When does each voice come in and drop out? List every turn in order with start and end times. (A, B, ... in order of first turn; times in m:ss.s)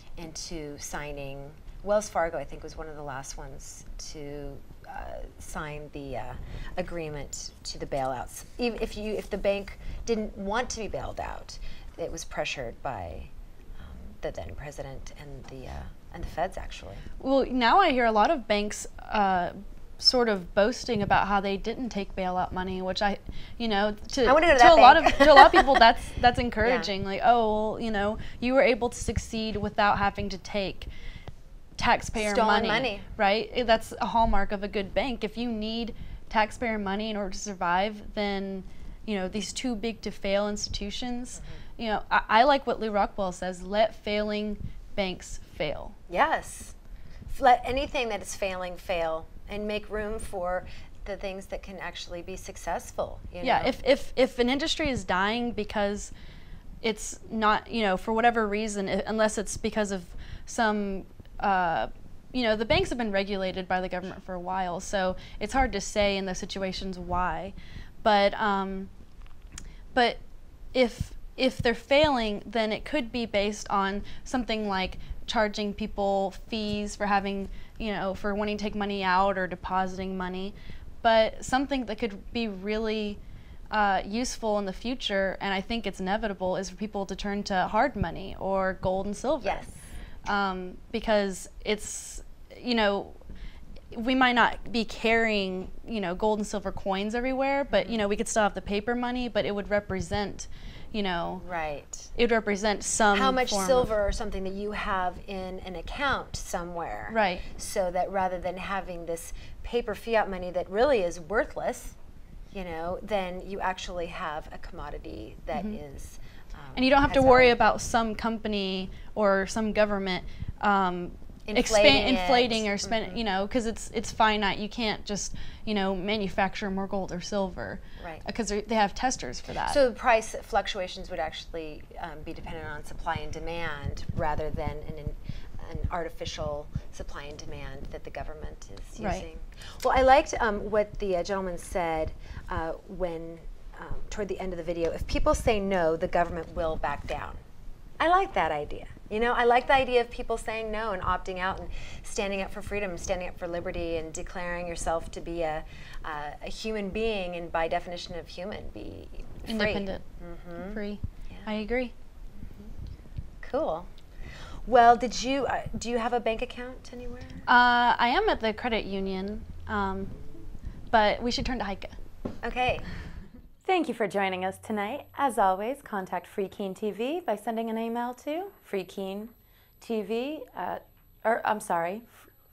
0:00.2-0:17.0 A
0:17.2-0:30.9 B
0:24.2-0:25.8 A
0:26.6-0:26.9 A
0:31.8-0:46.0 B
0:32.2-0:33.1 A
0:46.1-0:46.7 A
0:47.3-0:53.8 A
0:53.4-0:56.1 B
0:56.8-1:08.9 B
1:09.9-1:10.2 B
1:10.7-1:23.2 B
1:23.7-1:29.6 B
1:29.4-1:29.8 A
1:30.2-1:33.2 B
1:33.9-1:41.4 B
1:37.7-1:38.0 A
1:41.4-1:42.1 A
1:42.2-1:43.9 B
1:43.1-1:51.9 A
1:47.1-1:47.4 B
1:52.5-1:57.6 A
1:56.8-2:09.8 B
2:01.5-2:03.2 A
2:09.7-2:27.4 A
2:19.0-2:19.2 B
2:28.0-2:41.5 A
2:39.5-2:40.0 B
2:40.6-2:41.9 B
2:43.4-2:43.9 A
2:44.6-2:47.4 A
2:47.5-2:50.1 B
2:50.9-2:51.9 B
2:52.4-2:52.8 A
2:53.6-3:02.1 C